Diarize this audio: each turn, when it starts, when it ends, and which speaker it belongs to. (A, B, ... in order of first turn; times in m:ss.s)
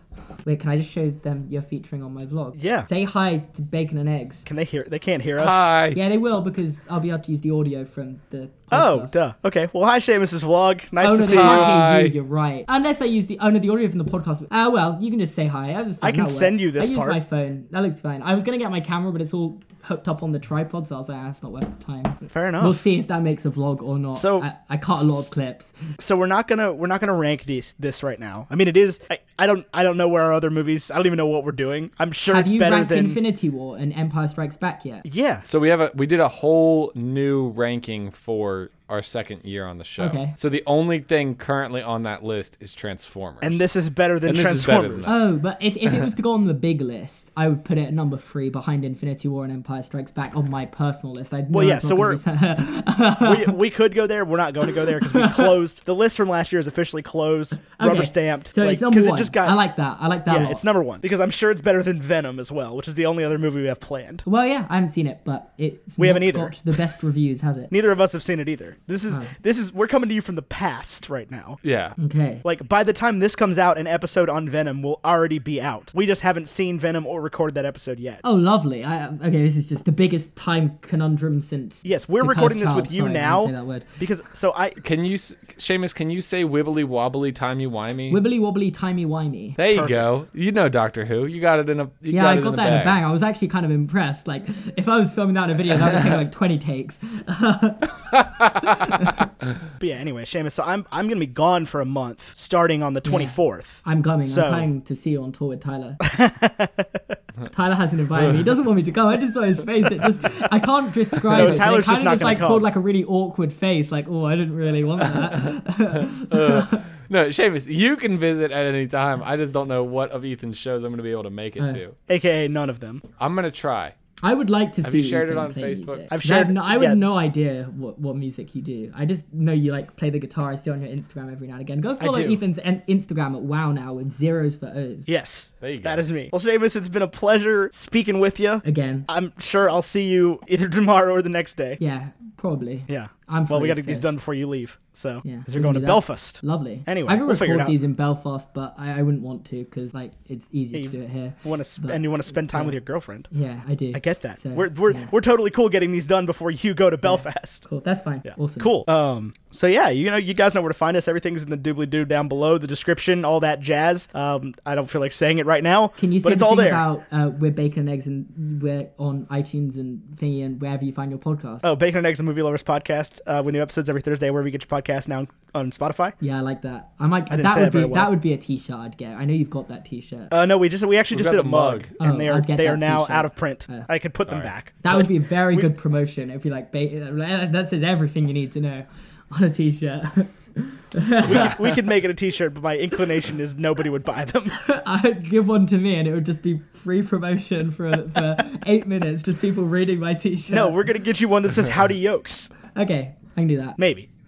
0:00.4-0:04.4 A
0:02.6-0:02.9 B
0:04.4-0:05.7 B
0:05.4-0:06.0 C
0:05.9-0:09.2 A
0:08.7-0:11.8 B
0:11.0-0:25.7 A
0:11.2-0:12.1 C
0:16.0-0:17.2 B
0:22.3-0:22.8 B
0:24.1-0:24.4 B
0:26.0-0:33.2 B
0:32.3-0:35.0 A
0:35.0-0:35.4 B
0:35.4-0:43.6 C
0:40.0-0:40.3 A
0:43.4-0:45.1 B
0:44.2-0:45.1 C
0:45.0-0:53.6 A
0:51.5-0:52.2 B
0:53.2-0:59.6 B
0:54.8-0:55.5 A
0:57.8-1:00.6 A
1:00.3-1:04.2 B
1:04.2-1:07.7 A
1:06.0-1:06.7 B
1:07.7-1:11.6 B
1:11.6-1:12.0 C
1:12.0-1:12.4 A
1:12.4-1:18.2 B
1:18.2-1:24.0 A
1:21.8-1:24.8 B
1:24.8-1:28.2 C
1:28.1-1:29.6 A
1:29.6-1:33.0 C
1:29.7-1:30.2 B
1:32.1-1:38.0 A
1:38.6-1:39.2 A
1:39.8-1:44.7 B
1:43.0-1:46.0 A
1:46.0-1:47.0 B
1:47.5-1:56.8 A
1:48.2-1:48.5 C
1:51.3-1:52.7 B
1:55.0-2:02.0 C
2:02.1-2:03.0 B
2:03.2-2:03.9 C
2:04.2-2:15.1 A
2:04.8-2:06.1 C
2:06.1-2:07.0 B
2:12.0-2:12.4 B
2:15.1-2:21.8 B
2:15.6-2:16.0 C
2:18.6-2:19.1 A
2:21.8-2:24.0 A
2:22.9-2:27.7 B
2:25.2-2:32.8 A
2:30.7-2:33.3 B
2:33.3-2:35.1 A
2:33.9-2:37.6 B
2:37.0-2:38.8 A
2:38.2-2:46.8 B
2:46.0-2:51.6 A
2:51.6-2:56.1 B
2:56.2-3:00.3 A
2:57.3-2:58.1 B
3:00.3-3:05.7 B
3:01.1-3:01.9 C
3:02.0-3:03.9 A
3:04.8-3:11.5 A
3:11.2-3:14.6 B
3:11.2-3:11.6 C
3:14.6-3:20.8 A
3:20.5-3:22.5 B
3:22.7-3:23.8 A
3:23.8-3:24.1 B